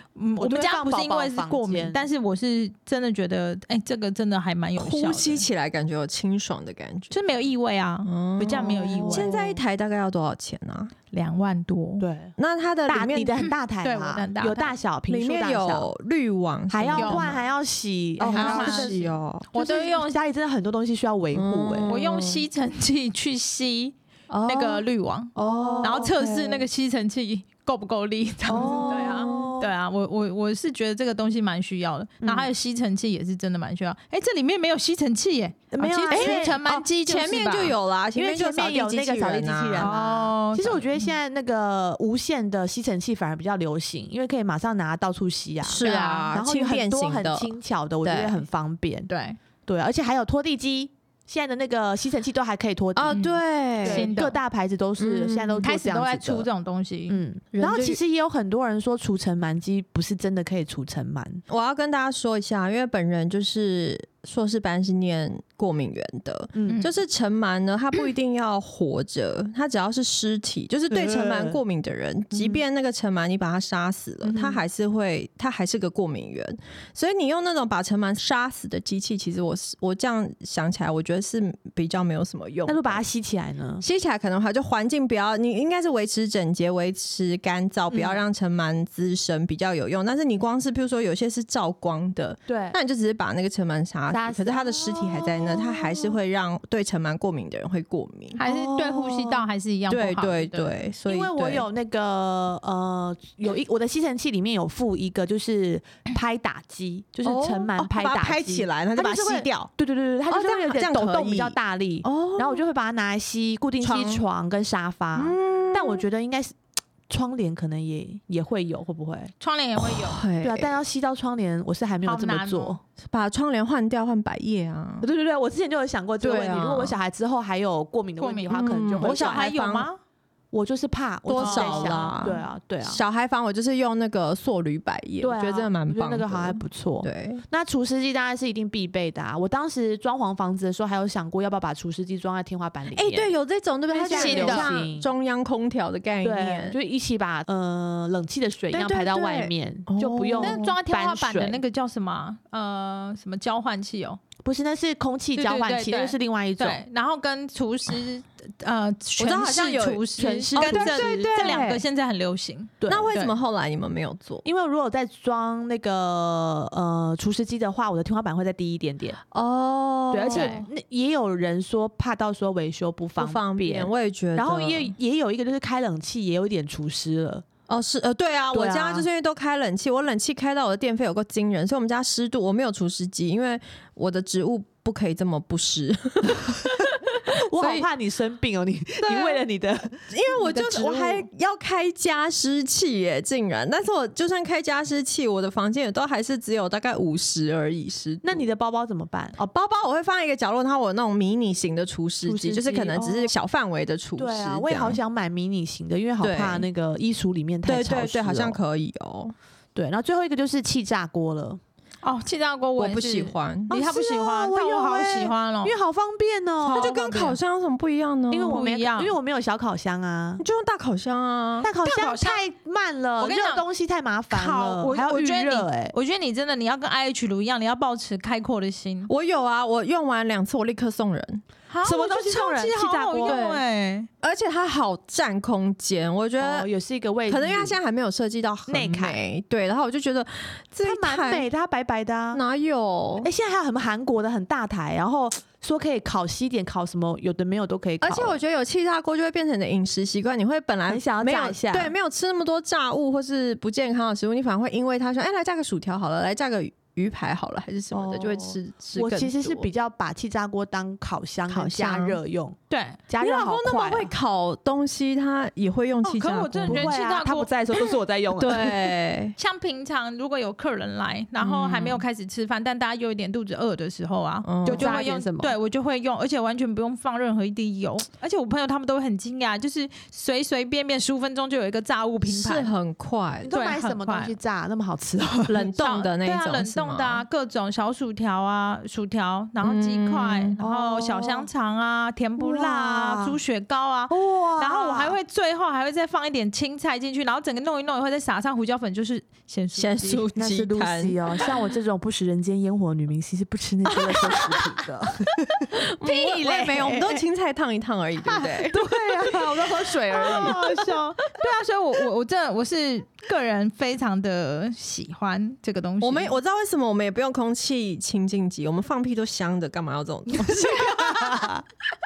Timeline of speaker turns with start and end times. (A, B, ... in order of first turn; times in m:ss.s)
0:00.2-0:05.4 A
0:00.4-0:02.0 B
0:04.8-0:07.2 C
0:07.1-0:09.4 A
0:08.0-0:10.9 C
0:08.5-0:09.6 B
0:11.1-0:12.0 A
0:12.0-0:12.3 B
0:12.4-0:13.5 C
0:12.9-0:15.9 B
0:13.8-0:14.7 A
0:15.1-0:17.4 C
0:16.7-0:21.9 B
0:17.0-0:17.3 A
0:18.2-0:19.5 C
0:18.2-0:19.0 A
0:19.5-0:20.2 A
0:21.3-0:22.4 C
0:21.9-0:37.8 A
0:24.3-0:24.8 C
0:25.4-0:26.1 B
0:25.4-0:26.6 C
0:28.5-0:29.6 B
0:28.5-0:29.6 C
0:32.2-0:32.5 B
0:35.7-0:36.6 B
0:36.1-0:39.9 C
0:38.1-0:49.1 B
0:39.8-0:41.1 A
0:45.6-0:48.4 C
0:45.8-0:46.3 A
0:49.1-0:49.4 A
0:49.6-0:56.5 B
0:52.9-0:54.1 C
0:53.1-0:54.4 A
0:55.0-0:55.6 C
0:55.6-0:57.2 A
0:57.1-1:01.4 B
0:57.5-0:58.0 C
1:01.5-1:23.0 C
1:06.5-1:06.8 B
1:10.9-1:11.6 B
1:12.3-1:12.6 B
1:14.2-1:14.6 B
1:22.7-1:23.8 B
1:23.8-1:38.4 C
1:27.9-1:28.2 B
1:32.5-1:32.8 B
1:34.1-1:36.1 B
1:38.4-1:40.7 A
1:38.4-1:39.4 B
1:39.9-1:41.6 C
1:41.0-1:56.5 B
1:47.2-1:49.7 C
1:50.3-1:52.6 C
1:53.8-1:54.2 C
1:55.1-1:56.0 C
1:57.1-1:59.3 B
1:59.4-2:00.2 A
1:59.8-2:00.7 C
2:00.4-2:02.8 B
2:02.0-2:02.8 A
2:03.0-2:05.1 C
2:05.0-2:09.5 B
2:06.2-2:07.0 C
2:08.2-2:10.0 A
2:08.5-2:09.9 C
2:10.5-2:13.0 B
2:11.3-2:17.4 C
2:11.4-2:12.1 A
2:15.2-2:23.3 B
2:22.9-2:26.8 C
2:23.9-2:25.1 B
2:24.1-2:24.7 A
2:26.2-2:31.6 B
2:28.7-2:30.8 C
2:30.4-2:34.2 A
2:34.4-2:36.8 B
2:35.4-2:43.3 A
2:39.2-2:41.8 C
2:40.2-2:41.7 B
2:42.8-2:43.1 B
2:42.9-2:44.4 C
2:44.4-2:49.2 B
2:49.3-2:50.6 C
2:50.1-2:57.4 B
2:50.3-2:50.6 A
2:53.2-2:54.9 C
2:57.7-3:07.9 C
2:58.5-2:59.1 B
3:07.2-3:11.2 B
3:09.0-3:09.4 C
3:10.1-3:18.5 C
3:18.2-3:19.5 B
3:19.5-3:25.0 C
3:22.2-3:23.3 B
3:24.2-3:28.6 B
3:26.2-3:26.7 C
3:27.6-3:29.3 C
3:29.7-3:31.6 B
3:32.0-3:35.7 A
3:32.8-3:33.7 C
3:33.7-3:36.9 B
3:36.6-3:37.4 A
3:36.6-3:38.6 C
3:38.3-3:40.4 B
3:38.5-3:39.1 A
3:40.4-3:41.7 C
3:41.6-3:45.9 B
3:41.8-3:42.4 A
3:43.2-3:43.6 A
3:44.3-3:49.1 A
3:49.1-3:51.4 C
3:51.7-3:54.1 A
3:51.8-3:53.4 B
3:53.2-3:53.6 C
3:54.2-3:56.7 C
3:56.4-3:57.8 B
3:57.3-4:01.5 C
3:58.7-3:59.2 B
4:00.8-4:02.4 B
4:02.3-4:03.3 C
4:03.2-4:08.4 B
4:08.0-4:19.7 C
4:10.9-4:11.9 B
4:17.9-4:22.6 B
4:21.5-4:22.2 C
4:22.7-4:23.0 A
4:23.1-4:24.1 B
4:23.2-4:26.9 C
4:26.0-4:27.5 A
4:26.7-4:28.9 B
4:28.4-4:29.3 C
4:29.4-4:42.7 A
4:31.4-4:32.0 C
4:34.4-4:35.0 C
4:34.6-4:35.6 B
4:42.2-4:43.5 C
4:43.4-4:45.7 B
4:43.5-4:44.3 A
4:45.5-4:47.2 C
4:45.8-5:00.2 A
4:49.6-4:50.6 C
4:50.6-4:51.5 B
4:52.4-4:53.4 B
4:54.1-4:55.2 B
4:59.7-5:01.5 C
5:00.3-5:07.2 B
5:03.8-5:04.8 C
5:05.7-5:10.7 C
5:08.2-5:10.9 B
5:10.2-5:16.4 A
5:16.0-5:21.5 C
5:20.4-5:21.6 B